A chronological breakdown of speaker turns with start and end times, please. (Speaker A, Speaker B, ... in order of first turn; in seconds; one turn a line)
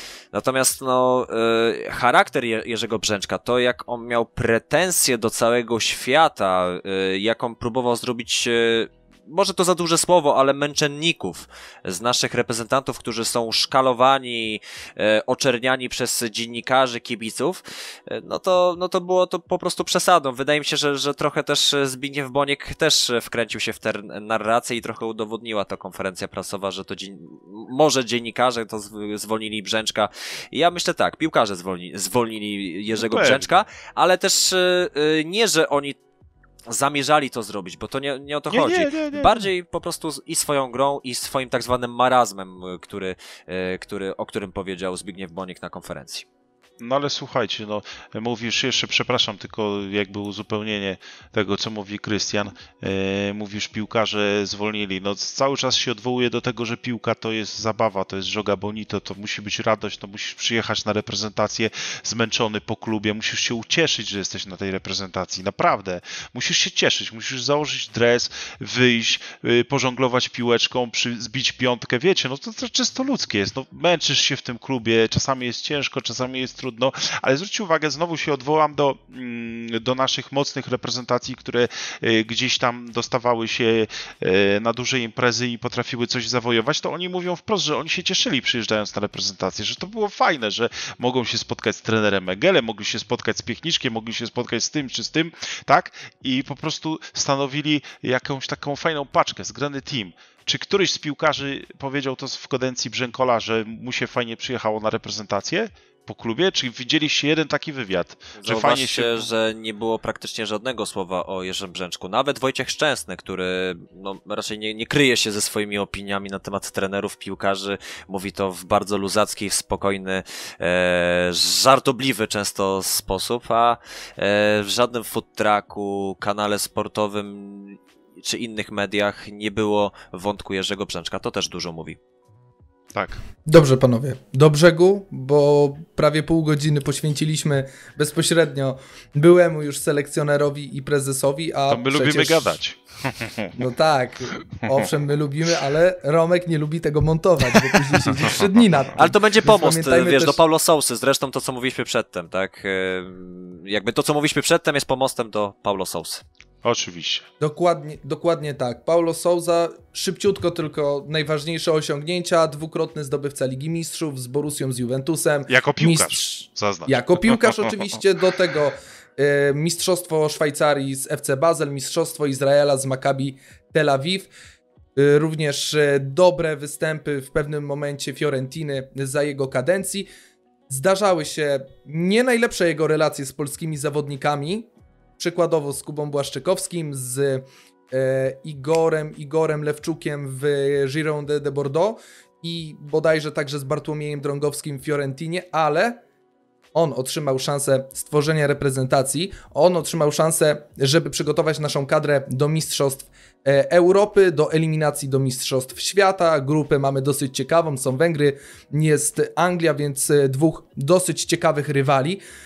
Speaker A: 0.3-36.0
Speaker B: 33.0-33.5
Speaker A: 36.7-46.2
Speaker B: 38.5-39.5
Speaker B: 46.8-109.3
Speaker A: 108.4-132.0
Speaker B: 132.9-133.2
Speaker C: 133.5-142.6
Speaker B: 141.7-143.5
Speaker C: 143.5-150.4
Speaker B: 148.2-148.6
Speaker A: 149.0-156.2
Speaker B: 156.6-157.3
Speaker C: 157.4-174.3
Speaker B: 165.5-167.5
Speaker C: 174.9-180.1
Speaker C: 180.7-196.0
Speaker C: 196.7-212.2